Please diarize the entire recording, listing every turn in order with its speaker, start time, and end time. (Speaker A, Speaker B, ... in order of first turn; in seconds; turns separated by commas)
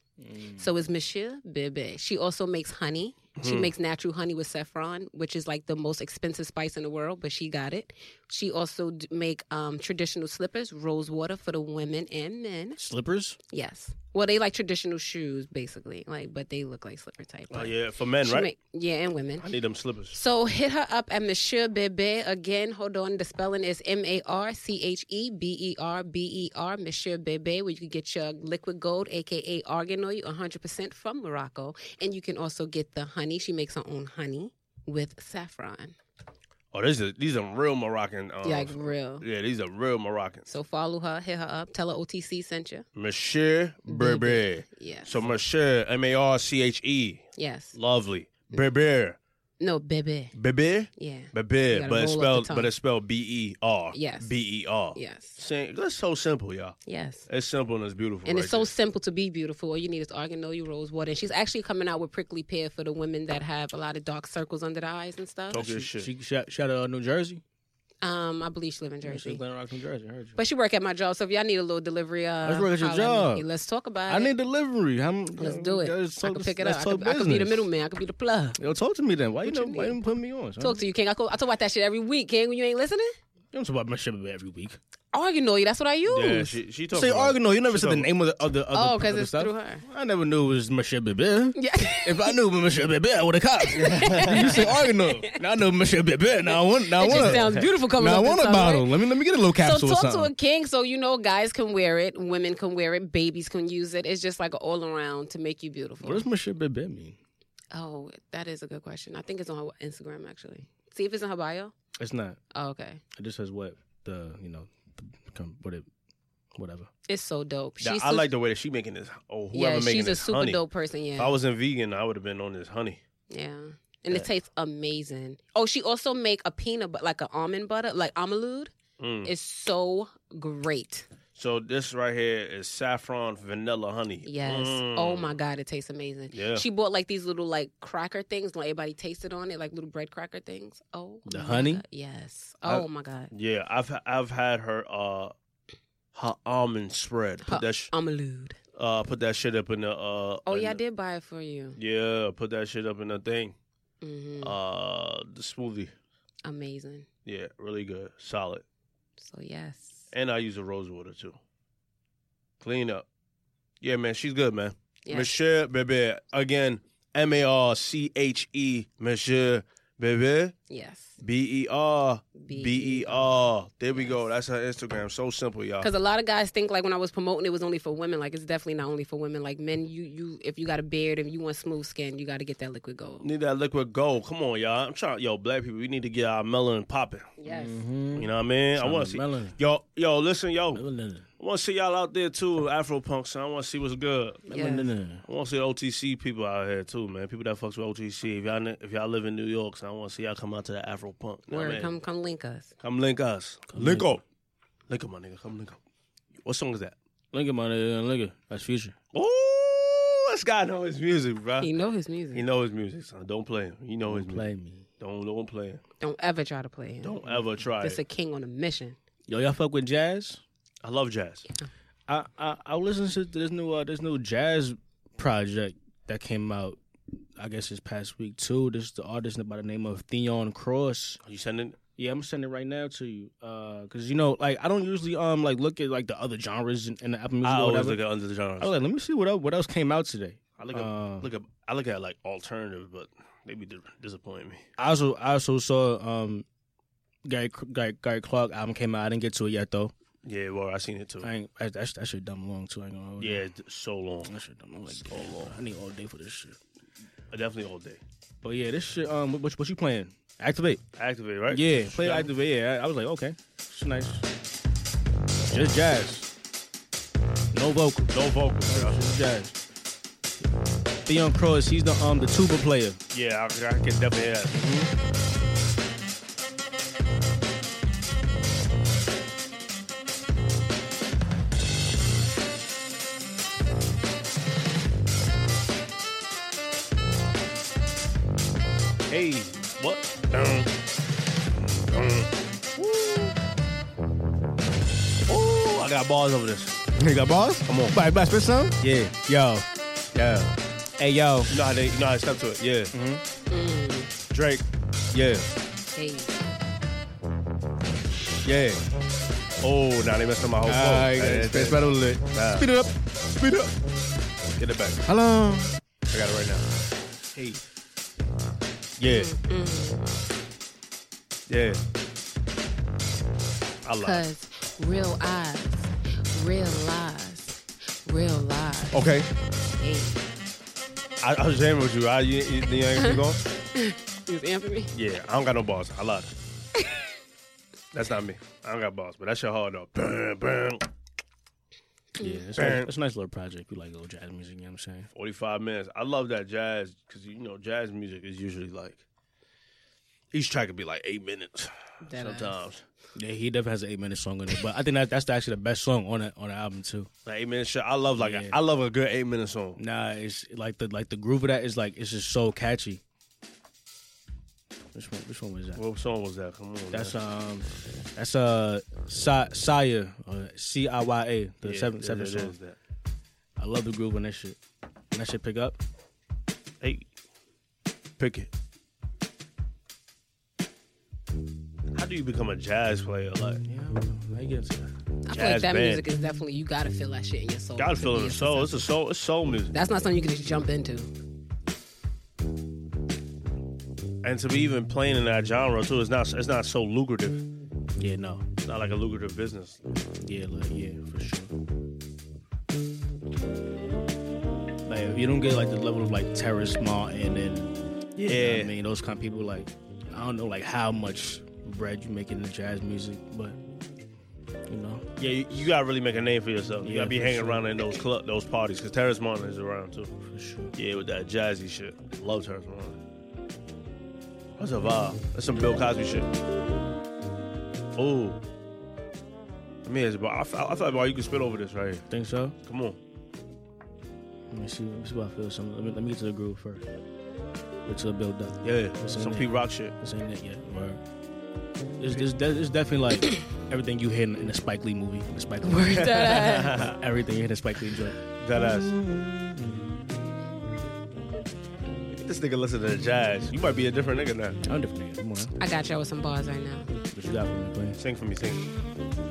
Speaker A: 0.2-0.7, Speaker B: 0.6-12.8, Speaker C: 3.4-3.7, Speaker A: 12.8-13.4, Speaker B: 13.5-19.5, Speaker C: 17.5-18.5, Speaker C: 19.4-20.2, Speaker B: 20.1-36.0, Speaker C: 36.7-40.5, Speaker B: 38.4-39.2, Speaker B: 40.5-42.9, Speaker C: 43.0-49.2, Speaker B: 43.9-45.3, Speaker B: 47.4-47.8, Speaker B: 49.6-50.4, Speaker C: 50.4-56.8, Speaker B: 51.0-52.7, Speaker B: 53.9-54.3, Speaker B: 54.9-55.4, Speaker B: 56.9-57.3, Speaker C: 57.3-58.7, Speaker B: 58.3-65.7, Speaker C: 65.5-66.1, Speaker A: 65.5-67.4, Speaker B: 68.0-69.4, Speaker A: 69.0-70.4, Speaker B: 70.4-74.3, Speaker A: 72.4-73.5, Speaker A: 74.1-77.7, Speaker B: 75.4-78.6, Speaker A: 78.6-80.8, Speaker B: 79.4-80.0, Speaker B: 80.6-83.2, Speaker A: 83.5-84.8, Speaker B: 85.1-86.6, Speaker C: 86.1-88.1, Speaker A: 86.9-100.3, Speaker B: 88.7-89.8, Speaker B: 91.6-92.3, Speaker B: 93.7-95.3, Speaker B: 97.0-98.9, Speaker B: 99.6-106.3, Speaker A: 106.0-107.2, Speaker B: 107.7-111.7, Speaker A: 112.0-112.4, Speaker B: 112.5-113.0, Speaker A: 113.2-115.9, Speaker A: 116.5-116.9, Speaker B: 117.1-118.3, Speaker C: 117.8-120.6, Speaker B: 119.5-121.3, Speaker C: 121.2-123.0, Speaker B: 123.3-128.7, Speaker C: 129.0-129.3, Speaker B: 129.2-131.1, Speaker C: 131.3-135.3, Speaker B: 134.2-143.3, Speaker C: 136.3-136.7, Speaker A: 141.3-141.8, Speaker C: 142.7-145.3, Speaker C: 146.1-147.9, Speaker B: 147.4-148.6, Speaker C: 148.8-150.8, Speaker B: 150.5-151.8, Speaker C: 151.8-153.6, Speaker B: 154.0-154.6, Speaker C: 154.4-155.9, Speaker B: 156.4-157.1, Speaker C: 157.2-158.7, Speaker B: 159.2-160.1, Speaker C: 160.1-161.4, Speaker C: 162.6-163.1, Speaker C: 163.8-170.6, Speaker B: 165.1-165.4, Speaker B: 170.7-171.2, Speaker C: 171.2-175.9, Speaker B: 172.4-174.2, Speaker B: 175.8-183.2, Speaker C: 183.2-187.3, Speaker B: 187.4-187.8, Speaker A: 187.5-189.6, Speaker C: 188.1-190.8, Speaker A: 190.8-191.3, Speaker C: 191.4-194.4, Speaker B: 194.5-194.9, Speaker A: 194.5-195.2, Speaker C: 195.2-201.9, Speaker B: 201.5-202.7, Speaker C: 202.8-204.2, Speaker A: 203.7-204.1, Speaker C: 204.9-205.8, Speaker C: 206.4-207.0, Speaker A: 207.3-208.9, Speaker C: 209.1-211.7, Speaker B: 211.6-212.4, Speaker C: 212.3-214.5, Speaker A: 214.1-214.9, Speaker C: 215.0-215.8, Speaker B: 216.0-217.2, Speaker C: 217.0-218.0, Speaker B: 217.8-219.0, Speaker A: 219.3-220.4, Speaker C: 220.8-221.5, Speaker A: 222.1-226.8, Speaker A: 227.4-231.2, Speaker C: 231.2-231.8, Speaker A: 232.0-238.0, Speaker C: 237.4-238.8, Speaker A: 238.6-241.3, Speaker C: 240.6-244.6, Speaker A: 244.8-246.4, Speaker A: 247.2-249.9, Speaker C: 250.2-251.3, Speaker A: 251.2-253.4, Speaker C: 253.2-254.3, Speaker A: 254.3-256.6, Speaker C: 254.9-255.6, Speaker C: 257.3-258.0, Speaker A: 258.4-260.8, Speaker C: 261.0-262.3, Speaker A: 261.5-264.2, Speaker A: 265.5-266.3, Speaker A: 267.5-268.1, Speaker C: 268.1-269.1, Speaker A: 268.7-269.6, Speaker A: 271.1-273.0, Speaker C: 273.1-274.6, Speaker A: 274.5-274.9, Speaker C: 289.1-290.7, Speaker C: 291.8-292.3, Speaker A: 292.8-293.3, Speaker C: 295.3-296.8, Speaker A: 297.0-299.6, Speaker C: 297.7-298.0, Speaker C: 298.8-299.2, Speaker C: 300.1-300.5, Speaker A: 301.0-301.5, Speaker C: 301.5-302.9, Speaker A: 302.9-303.2, Speaker B: 303.5-304.1, Speaker C: 304.3-305.5, Speaker B: 305.9-306.4, Speaker C: 308.4-308.8, Speaker C: 309.6-312.7, Speaker A: 310.7-313.7, Speaker C: 314.6-315.0, Speaker A: 315.1-315.7, Speaker C: 316.1-316.7, Speaker C: 319.0-319.3, Speaker B: 319.1-320.1, Speaker C: 321.5-321.8, Speaker C: 323.8-324.2, Speaker B: 324.0-329.0, Speaker C: 328.9-329.2, Speaker B: 329.8-330.3, Speaker C: 331.2-333.4, Speaker B: 333.0-333.2, Speaker B: 333.7-334.9, Speaker C: 334.9-336.3, Speaker C: 337.9-340.8, Speaker B: 342.2-342.4, Speaker A: 342.2-345.1, Speaker C: 342.6-342.9, Speaker C: 345.1-349.0, Speaker C: 350.3-352.8, Speaker B: 352.1-352.6, Speaker A: 353.2-357.1, Speaker C: 357.2-359.8, Speaker A: 358.2-358.6, Speaker A: 359.8-363.0, Speaker A: 364.9-365.8, Speaker C: 365.8-367.2, Speaker A: 366.9-372.6, Speaker C: 371.6-372.8, Speaker A: 373.6-374.6, Speaker A: 375.1-375.8, Speaker C: 376.8-377.1, Speaker C: 378.2-378.5, Speaker C: 381.9-383.6, Speaker A: 383.7-384.9, Speaker B: 385.3-388.9, Speaker C: 385.3-386.1, Speaker C: 387.8-389.8, Speaker B: 389.7-391.1, Speaker C: 394.2-397.4, Speaker A: 398.0-398.5, Speaker C: 398.6-399.8, Speaker A: 400.2-401.5, Speaker A: 404.9-413.6, Speaker C: 408.2-408.7, Speaker A: 414.7-415.1, Speaker C: 415.2-420.1, Speaker A: 416.8-417.6, Speaker A: 420.3-420.7, Speaker C: 420.8-423.0, Speaker C: 424.6-426.3, Speaker C: 427.9-428.4, Speaker C: 429.9-432.1, Speaker A: 432.1-432.6, Speaker C: 432.6-433.0, Speaker A: 434.5-436.8, Speaker A: 437.9-441.0, Speaker C: 438.6-439.9, Speaker A: 442.0-450.0, Speaker B: 445.6-446.8, Speaker C: 446.2-447.0, Speaker C: 448.4-448.9, Speaker C: 452.1-454.6, Speaker A: 454.6-455.5, Speaker B: 455.6-456.9, Speaker A: 457.1-458.0, Speaker C: 458.0-458.6